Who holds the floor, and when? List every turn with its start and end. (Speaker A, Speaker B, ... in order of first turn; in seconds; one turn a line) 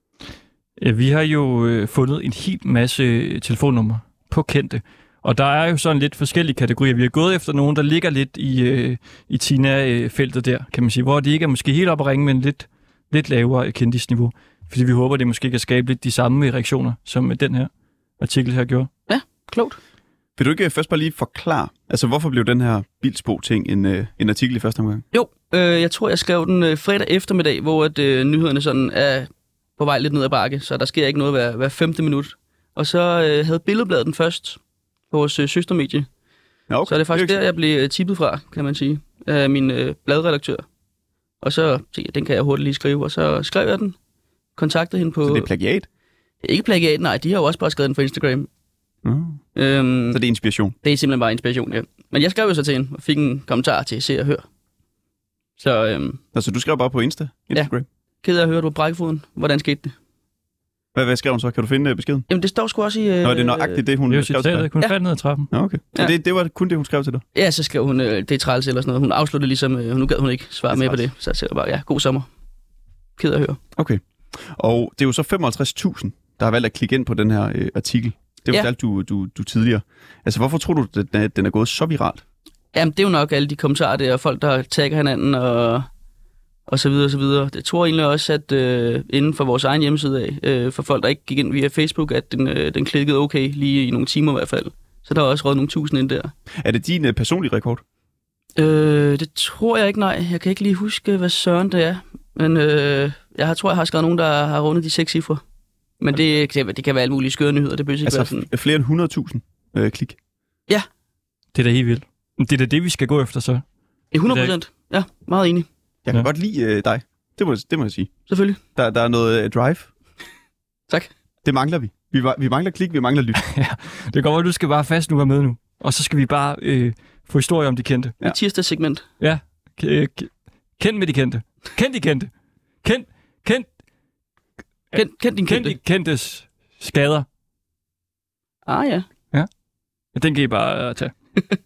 Speaker A: 0.8-18.9
Speaker B: 19.1-19.8
Speaker C: 20.4-25.0
Speaker B: 25.1-34.6
Speaker B: 35.1-36.1
Speaker C: 36.7-37.4
Speaker B: 36.9-40.6
Speaker B: 41.4-44.0
Speaker B: 44.6-45.5
Speaker C: 45.2-45.9
Speaker B: 46.4-48.5
Speaker C: 49.0-49.4
Speaker B: 49.5-50.2
Speaker C: 50.1-50.8
Speaker B: 50.8-54.5
Speaker B: 55.6-56.2
Speaker C: 56.3-57.9
Speaker B: 58.2-60.0
Speaker C: 60.9-62.3
Speaker B: 62.3-63.8
Speaker C: 63.2-64.7
Speaker A: 64.1-65.5
Speaker C: 65.5-67.2
Speaker B: 67.3-72.3
Speaker C: 70.7-71.0
Speaker B: 73.2-73.6
Speaker C: 73.8-82.2
Speaker B: 82.7-85.9
Speaker B: 86.7-96.3
Speaker C: 96.6-97.8
Speaker B: 98.6-105.4
Speaker B: 106.0-108.5
Speaker C: 108.0-110.2
Speaker A: 111.5-113.6
Speaker B: 114.1-115.7
Speaker A: 114.3-114.5
Speaker C: 116.1-118.1
Speaker B: 118.3-118.6
Speaker C: 118.8-119.9
Speaker C: 121.4-123.4
Speaker A: 123.4-128.2
Speaker B: 128.2-129.1
Speaker A: 129.2-132.3
Speaker A: 132.8-133.7
Speaker A: 134.9-137.3
Speaker B: 134.9-135.7
Speaker B: 138.7-139.1
Speaker A: 140.2-141.1